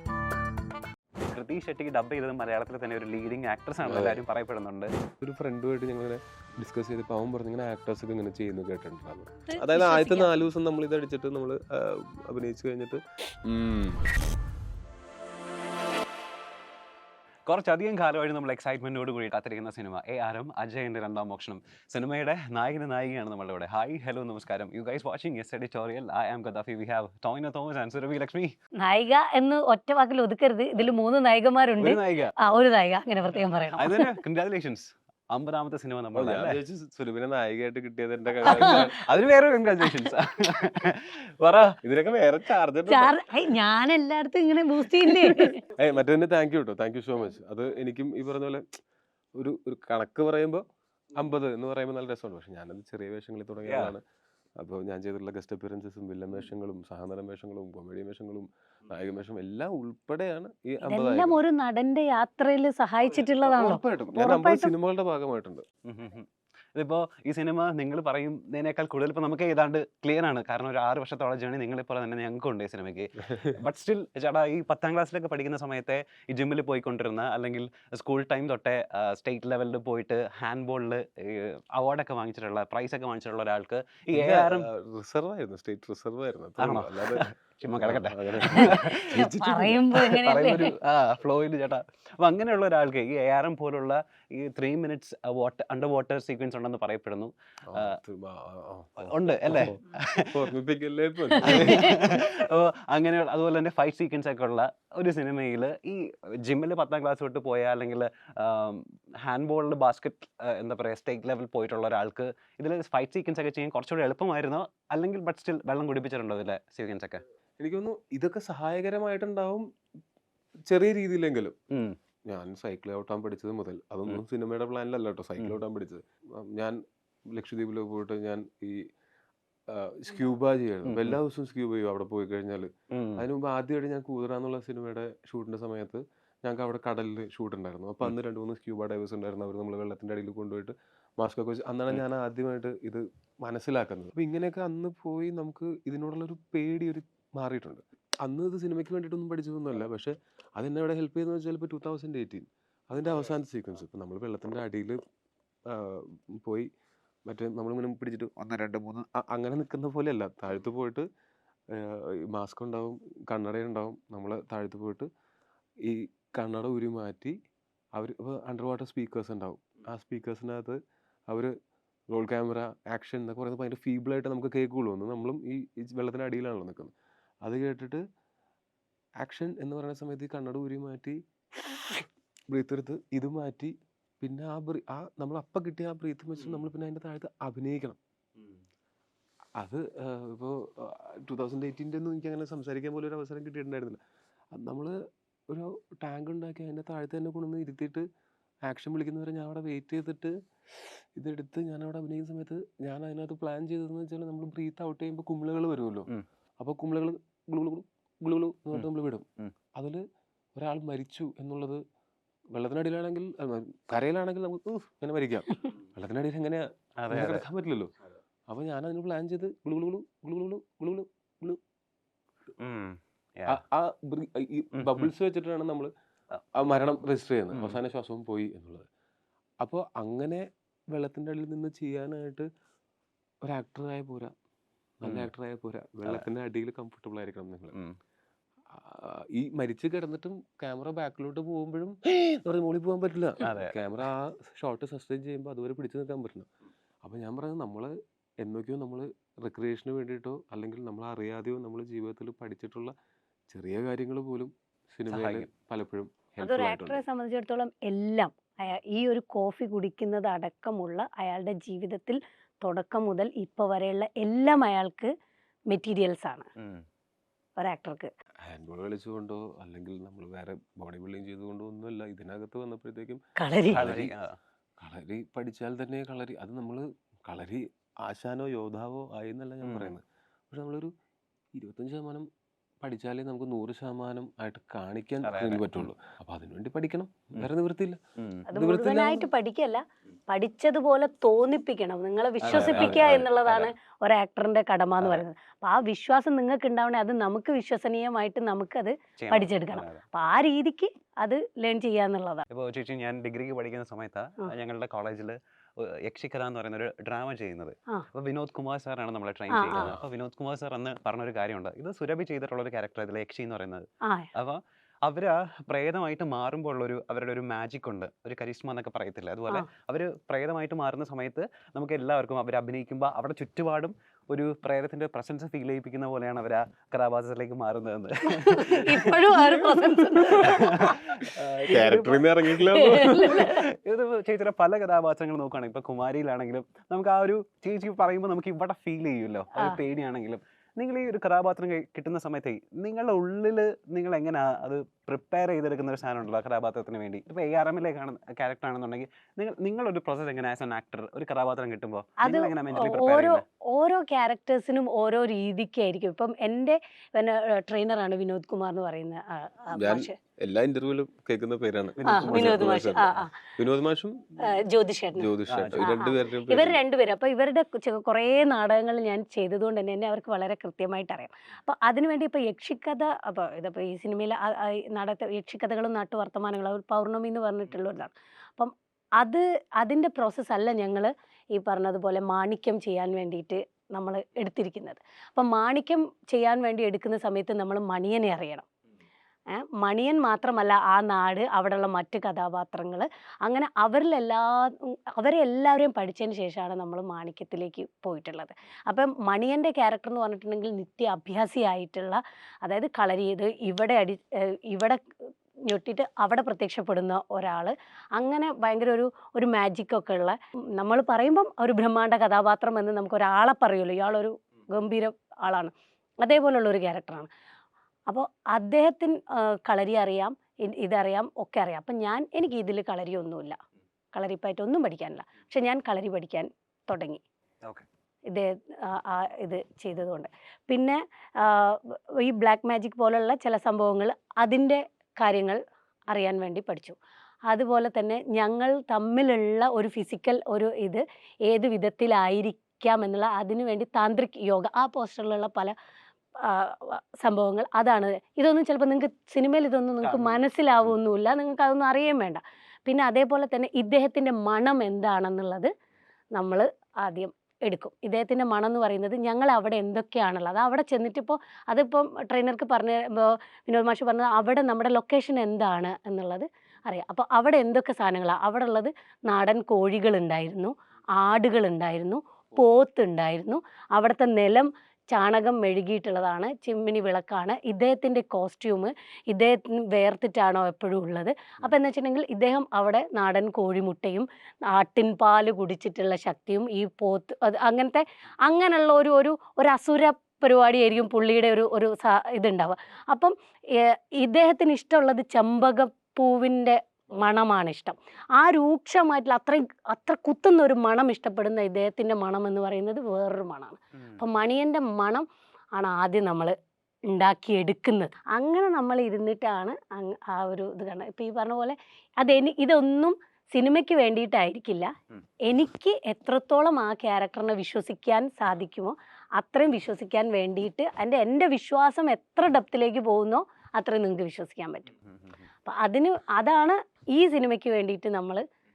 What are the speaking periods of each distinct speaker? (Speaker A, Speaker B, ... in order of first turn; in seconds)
Speaker A: 1.3-4.9, 17.5-28.5, 31.8-32.3, 33.8-36.6, 38.4-41.8, 53.6-53.9, 65.8-84.7, 86.6-98.0, 99.0-100.3, 101.3-117.2, 121.7-122.0, 130.8-131.2, 132.9-133.2, 158.4-159.1, 217.0-217.4, 222.6-223.6, 224.8-225.1, 227.5-227.8, 235.0-235.3, 243.4-243.8, 255.1-255.5, 266.6-266.8, 273.7-274.4, 279.6-280.0, 285.2-285.9, 288.2-288.5, 292.4-293.7, 299.2-300.0, 302.5-329.6, 330.2-353.4, 362.0-362.8, 365.5-365.9, 450.0-450.9, 503.9-504.2
Speaker B: 3.8-4.2, 5.2-14.2, 36.1-39.0, 41.8-43.1, 45.1-48.7, 49.4-50.6, 51.1-54.0, 54.6-61.4, 63.5-65.6, 84.2-89.8, 97.7-102.3, 117.6-119.7, 120.7-121.5, 122.3-128.9, 129.7-155.0, 155.7-156.7, 157.2-158.3, 159.1-161.1, 161.7-165.1, 165.8-167.3, 167.9-170.8, 171.3-171.5, 172.1-176.9, 177.4-178.0, 179.2-188.0, 189.6-194.0, 194.5-198.1, 198.6-206.1, 206.6-210.0, 210.6-211.8, 212.5-217.9, 218.5-221.6, 223.5-225.9, 226.5-228.9, 229.6-232.5, 233.4-234.3, 235.0-237.7, 238.7-246.5, 247.0-252.9, 253.5-257.0, 268.4-274.1, 274.8-280.9, 281.5-282.3, 282.8-288.0, 288.6-289.3, 292.5-293.3, 309.7-310.0, 329.8-330.7, 331.6-333.5, 359.7-364.2, 365.1-366.8
Speaker C: 9.5-10.3, 28.8-34.1, 38.5-38.8, 42.9-45.6, 60.9-64.7, 88.5-90.7, 101.5-101.9, 256.4-265.1, 265.7-266.4, 267.6-268.1, 273.4-273.9, 288.5-302.4, 309.5-309.9, 314.0-314.3, 328.5-331.0, 332.7-333.6, 352.2-360.1, 362.1-363.4, 364.4-388.6, 389.5-405.0, 405.6-417.3, 418.1-423.6, 424.1-427.2, 428.3-436.9, 437.5-445.7, 446.4-455.7, 456.3-506.5, 507.1-514.9, 515.5-524.9, 525.6-528.4